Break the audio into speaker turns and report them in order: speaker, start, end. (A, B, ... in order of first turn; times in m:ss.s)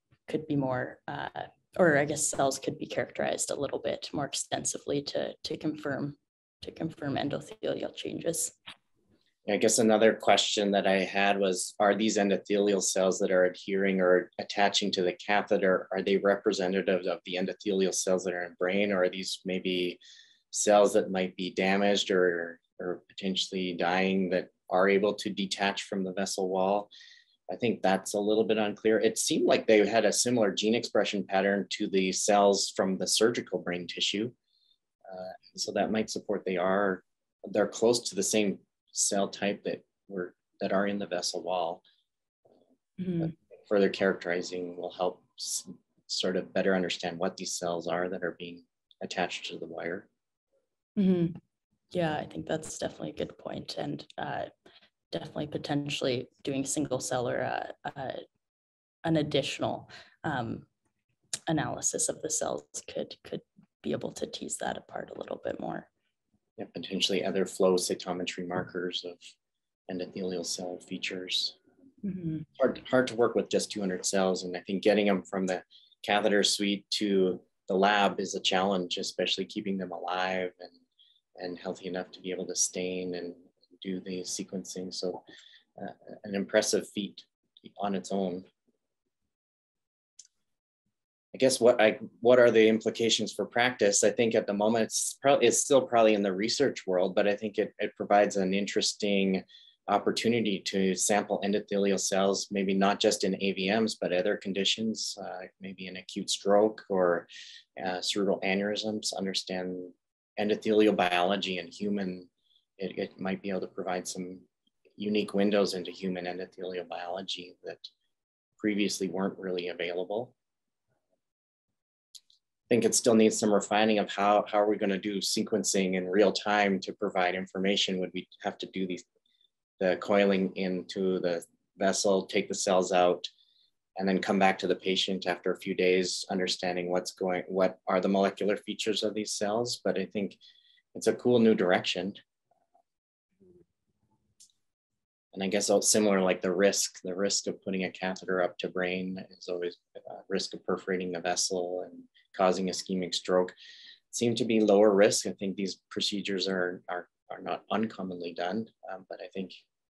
0:00.3-0:08.5 A
0:09.4-0:20.0 B
0:20.5-0:26.9 B
0:27.5-0:34.3 B
0:35.1-0:41.8 B
0:43.0-0:43.3 A
0:43.2-0:50.1 B
0:51.0-0:51.4 A
0:51.9-0:54.5 A
0:55.1-0:58.2 A
0:59.0-1:00.6 A
1:01.5-1:05.9 A
1:06.6-1:09.2 B
1:09.9-1:11.6 B
1:12.0-1:12.4 A
1:12.6-1:20.8 B
1:21.4-1:25.2 B
1:25.8-1:27.2 B
1:27.8-1:28.4 B
1:31.3-1:54.4 B
1:55.0-1:57.9 B
1:58.6-2:00.3 B
2:02.7-2:09.0 B
2:09.8-2:13.3 B
2:14.0-2:20.4 B
2:20.9-2:22.2 B
2:25.3-2:33.5 B
2:34.1-2:39.6 B